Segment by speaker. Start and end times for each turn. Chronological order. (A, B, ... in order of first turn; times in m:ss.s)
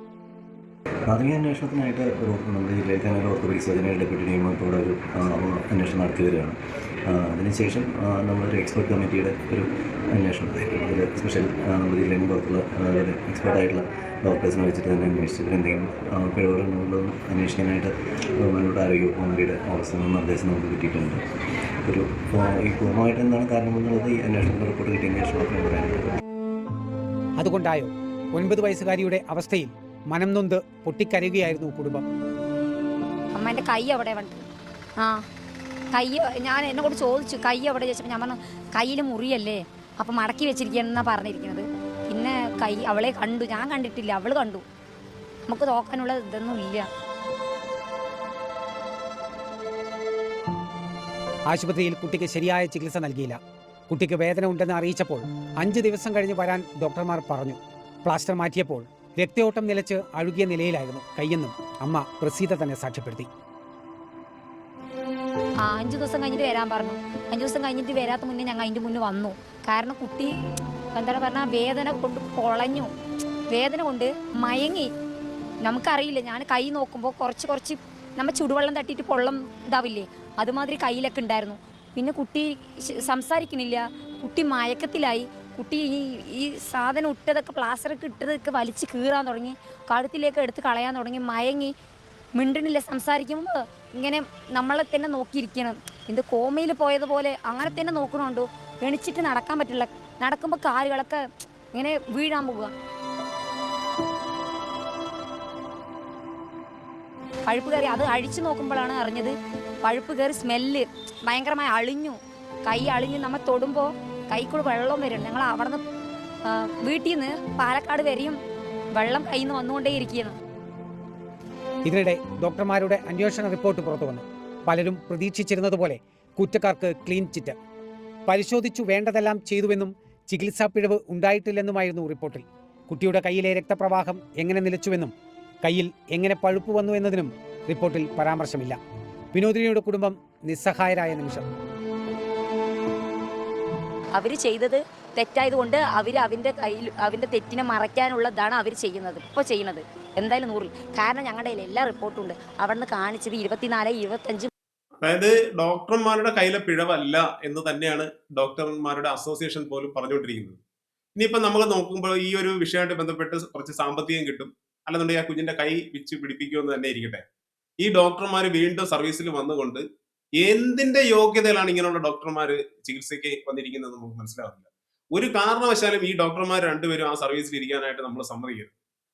0:01.1-0:21.2 A
0:21.8-0:26.2 A
0:27.4-0:32.0 B
0:33.4-0:34.4 C
0:35.9-0:44.6 C
0:45.5-0:46.9 C
0:51.5-0:53.4 B
0:53.9-1:03.3 B
1:05.6-1:10.3 C
1:11.0-1:12.9 C
1:13.5-1:14.9 C
1:15.6-1:31.7 C
1:32.4-1:42.7 C
1:47.5-1:55.8 C
1:56.5-1:58.4 C
1:59.0-2:00.4 C
2:01.8-2:07.6 B
2:08.3-2:18.8 B
2:19.3-2:21.5 B
2:24.1-2:34.5 C
2:35.0-2:40.6 D
2:41.2-2:47.2 D
2:47.8-2:49.8 D
2:50.4-2:58.7 D